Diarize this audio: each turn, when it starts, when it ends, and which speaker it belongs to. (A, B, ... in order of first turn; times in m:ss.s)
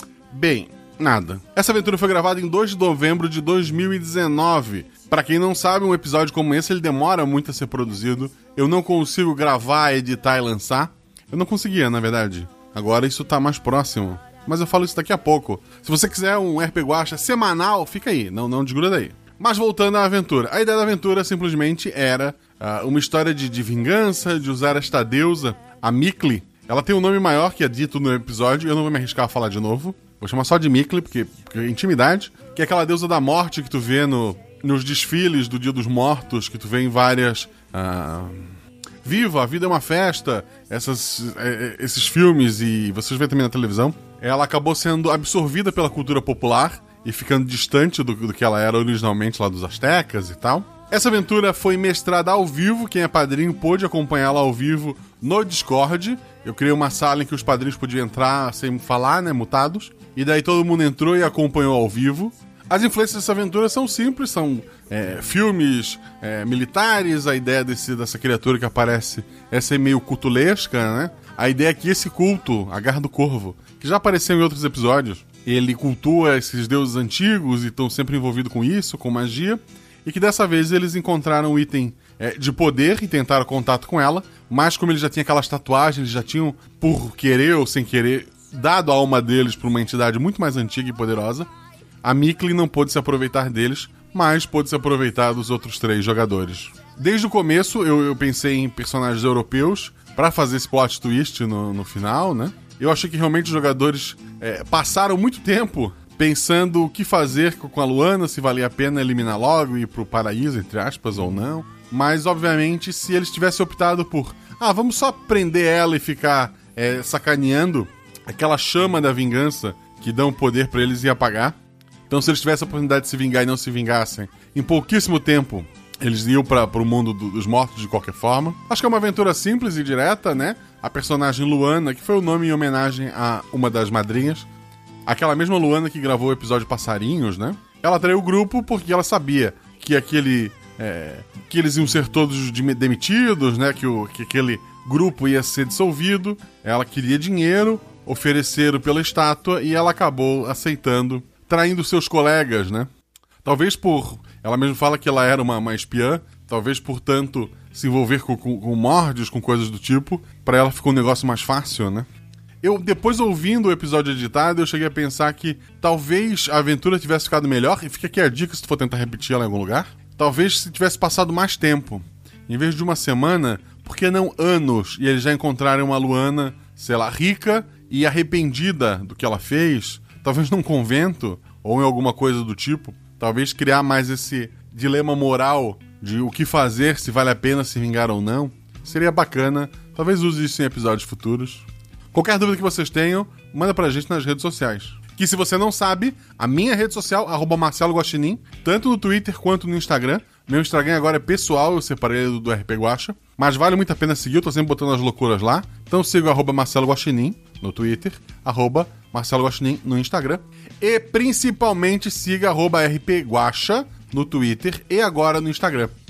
0:00.3-1:31.5 A
1:32.0-2:01.6 A
2:02.1-2:14.5 A
2:15.1-2:32.9 A
2:33.4-2:42.1 A
2:42.6-3:35.9 A